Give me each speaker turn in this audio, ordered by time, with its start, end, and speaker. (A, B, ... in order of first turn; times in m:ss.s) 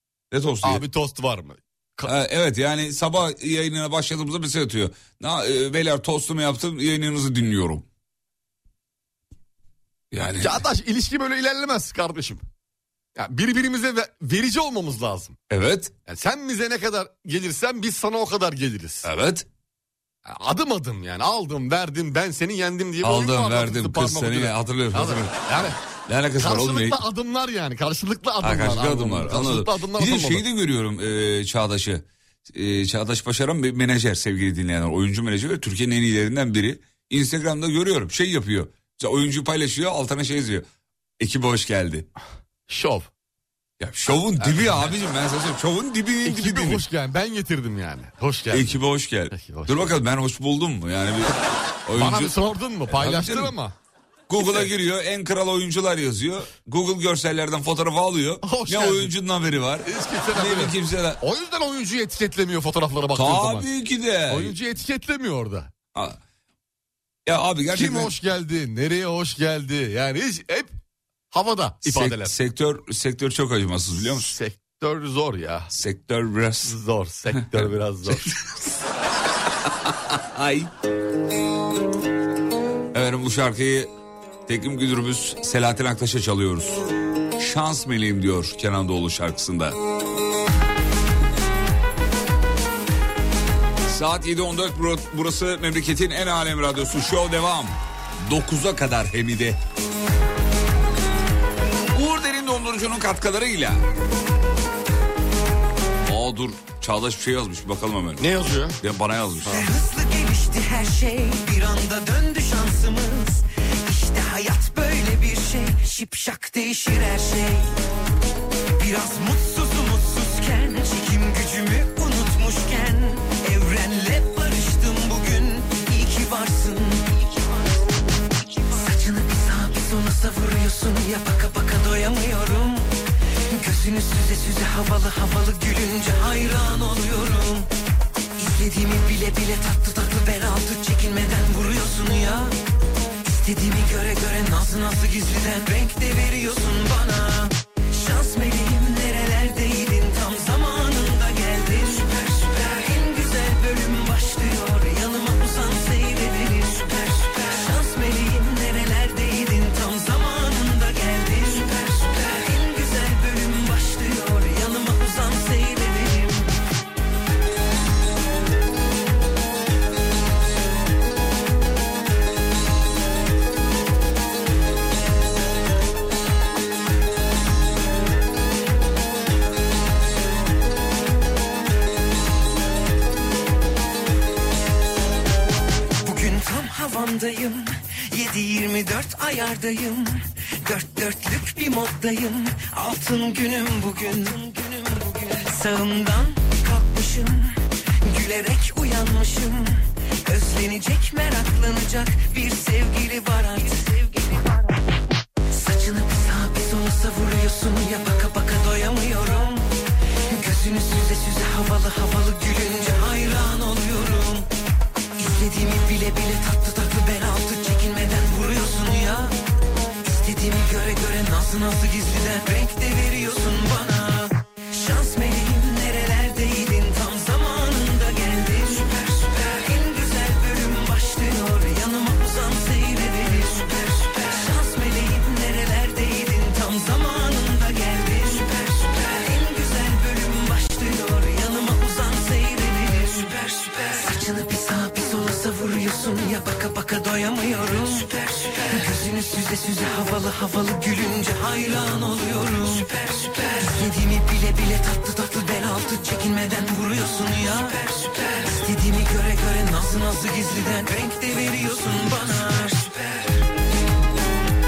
0:00.3-0:00.8 A
0:00.6-0:02.1 B
0:02.0-0:07.8 A
0:10.1-0:10.6 A
0:10.4-0:12.4 B
0:13.2-0:15.4 B
0:15.5-0:15.9 A
0:16.0-0:19.0 B
0:19.0-0:19.4 A
0:20.2-0:25.8 B
0:23.0-0:27.0 A
0:26.4-0:30.4 B
0:28.4-0:40.6 A
0:41.2-0:42.1 A
0:42.7-0:43.1 B
0:43.8-0:46.8 A
0:44.3-0:44.9 B
0:46.2-0:50.0 B
0:48.5-0:52.3 A
0:52.0-0:53.7 B
0:52.9-0:53.5 A
0:54.3-1:01.2 A
0:54.4-0:54.7 B
0:58.4-0:59.1 B
0:59.8-1:03.7 B
1:03.1-1:04.5 A
1:04.3-1:05.7 B
1:07.2-1:08.1 A
1:07.7-1:10.7 B
1:11.3-1:12.3 B
1:11.8-1:14.3 A
1:14.1-1:15.7 B
1:15.7-1:16.7 A
1:16.6-1:18.3 B
1:18.2-1:18.4 A
1:19.7-1:20.7 A
1:22.9-1:23.9 A
1:24.4-1:26.8 A
1:27.4-1:29.8 A
1:33.8-1:39.6 A
1:41.9-1:43.8 A
1:46.0-1:48.2 A
1:48.2-1:48.8 B
1:48.8-1:49.6 A
1:49.5-1:57.7 C
1:58.8-2:07.4 C
2:08.7-2:12.9 C
2:13.5-2:17.7 C
2:18.4-2:22.5 C
2:23.2-2:46.5 C
3:06.0-3:24.6 C
3:25.5-3:29.7 C
3:30.3-3:34.5 C
3:35.2-3:39.3 C
3:40.0-4:23.4 C